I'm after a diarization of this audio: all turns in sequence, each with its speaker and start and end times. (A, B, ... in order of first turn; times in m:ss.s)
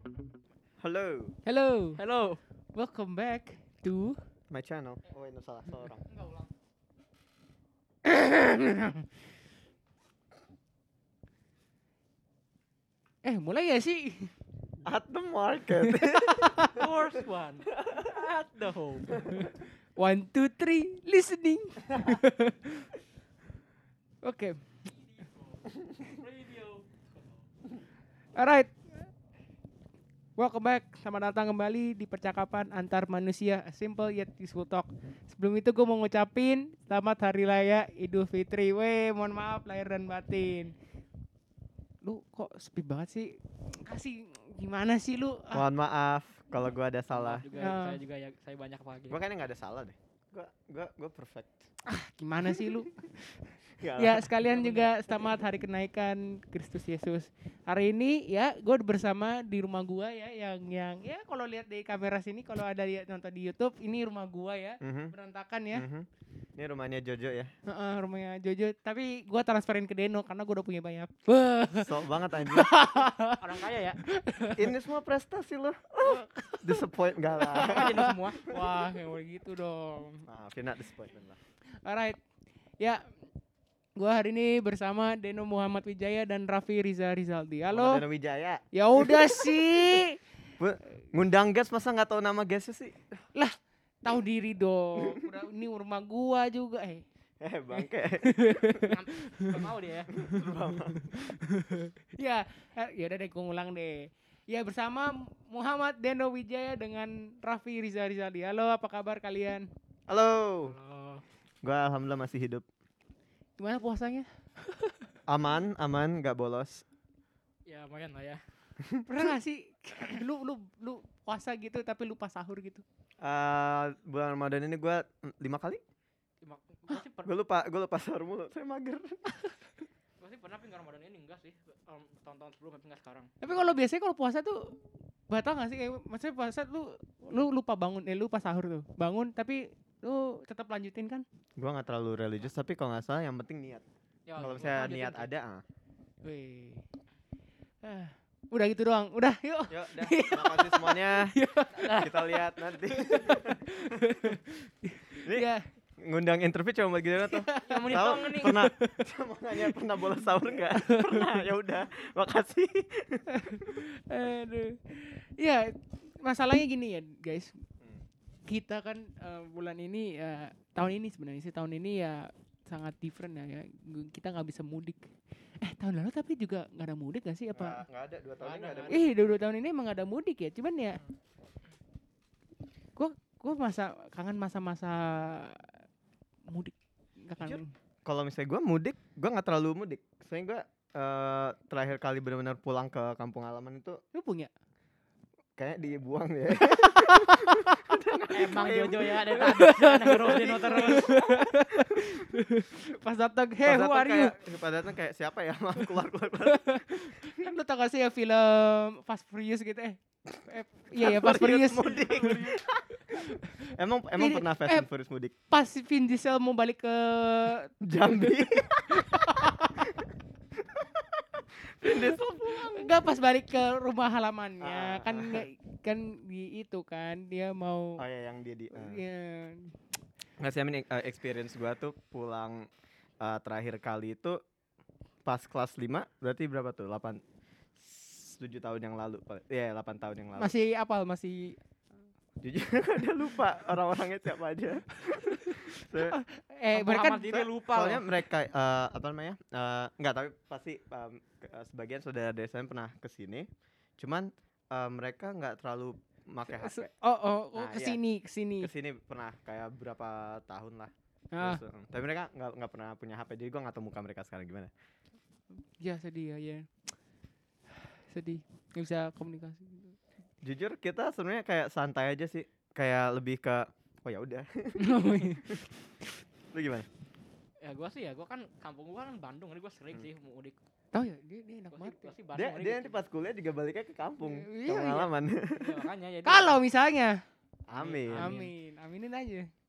0:00.8-0:01.3 A
0:01.4-0:02.0 B
0:02.0-0:02.4 C
0:02.7-0:04.2 B
0:04.5-0:06.1 A
0:06.1-0:06.5 C
0:08.0-0:09.0 B
0:13.2-0:14.3 B
0:14.8-0:17.2 A
0:15.8-0:16.8 B
0:16.7-0:19.4 C
0:17.7-0:18.1 A
0:19.3-0:22.9 B
0:24.2-0:24.8 B
0:25.1-0:27.4 C
0:28.3-0:29.1 B
0:30.4-0:40.7 B
0:42.0-0:45.6 B
0:45.5-0:47.5 A
0:47.1-0:49.2 C
0:47.5-0:48.0 B
0:49.1-0:51.7 A
0:51.8-0:53.4 B
0:53.8-0:54.3 A
0:53.9-1:05.9 B
0:54.5-0:54.9 C
1:04.8-1:05.1 A
1:05.7-1:07.5 A
1:07.6-1:14.7 B
1:11.7-1:12.8 A
1:13.4-1:14.0 C
1:14.6-1:18.6 A
1:16.0-1:16.8 B
1:17.3-1:20.2 B
1:17.4-1:18.4 C
1:20.3-1:21.4 A
1:21.7-1:22.2 B
1:22.8-1:23.1 B
1:24.0-1:28.0 B
1:27.7-1:30.0 A
1:28.7-1:30.2 B
1:30.6-1:33.0 A
1:33.3-1:37.0 B
1:37.4-1:38.9 A
1:38.2-1:39.6 B
1:38.8-1:40.1 C
1:40.1-1:41.4 A
1:41.0-1:49.7 B
1:50.1-1:50.8 A
1:50.7-1:51.2 C
1:51.6-1:52.6 A
1:53.6-1:55.1 B
1:55.3-1:56.8 A
1:57.6-1:58.4 C
1:58.8-1:59.3 A
1:59.1-2:02.8 B
2:03.2-2:05.8 A
2:06.4-2:07.3 C
2:07.2-2:09.5 A
2:10.2-2:13.6 C
2:13.4-2:21.2 B
2:21.6-2:23.8 A
2:24.3-2:25.3 C
2:24.4-2:25.6 A
2:26.2-2:26.8 B
2:27.8-2:35.6 B
2:29.7-2:34.4 A
2:31.8-2:32.1 C
2:35.1-2:35.5 A
2:36.0-2:43.8 A
2:37.3-2:39.0 B
2:37.6-2:38.6 C
2:40.7-2:41.3 B
2:43.3-2:47.6 B
2:48.5-2:57.8 B
2:57.5-2:59.0 A
2:58.4-2:59.0 C
2:58.9-3:01.0 B
3:03.0-3:05.8 B
3:06.5-3:07.7 B
3:07.4-3:14.0 A
3:14.1-3:14.5 B
3:15.6-3:19.5 A
3:16.6-3:17.9 B
3:18.3-3:21.2 C
3:19.3-3:24.4 B
3:20.1-3:22.3 A
3:23.6-3:27.5 A
3:26.5-3:32.4 B
3:30.9-3:35.3 A
3:34.2-3:34.9 B
3:35.5-3:38.4 B
3:37.8-3:40.0 A
3:38.9-3:40.0 B
3:40.6-3:42.9 A
3:41.8-3:48.0 B
3:44.6-3:45.4 A
3:48.0-3:49.0 A
3:48.7-3:49.8 B
3:50.4-3:52.7 A
3:53.2-3:54.4 A
3:55.2-3:57.2 A
3:57.8-4:00.5 A
4:00.4-4:01.6 B
4:02.4-4:06.2 A
4:05.2-4:07.4 B
4:06.7-4:08.1 C
4:07.3-4:13.5 A
4:14.0-4:16.9 A
4:16.5-4:18.7 B
4:17.5-4:18.0 A
4:18.6-4:24.7 A
4:21.3-4:21.6 B
4:25.8-4:26.7 B
4:27.7-4:30.0 B
4:30.4-4:35.6 A
4:34.8-4:35.6 B
4:36.5-4:36.9 A
4:37.6-4:40.6 C
4:40.9-4:42.1 B
4:41.7-4:43.0 C
4:42.3-4:45.8 A
4:44.2-4:45.1 B
4:45.5-4:46.6 C
4:46.2-4:47.2 B
4:47.7-4:48.3 A
4:47.7-4:48.5 C
4:48.1-4:49.5 B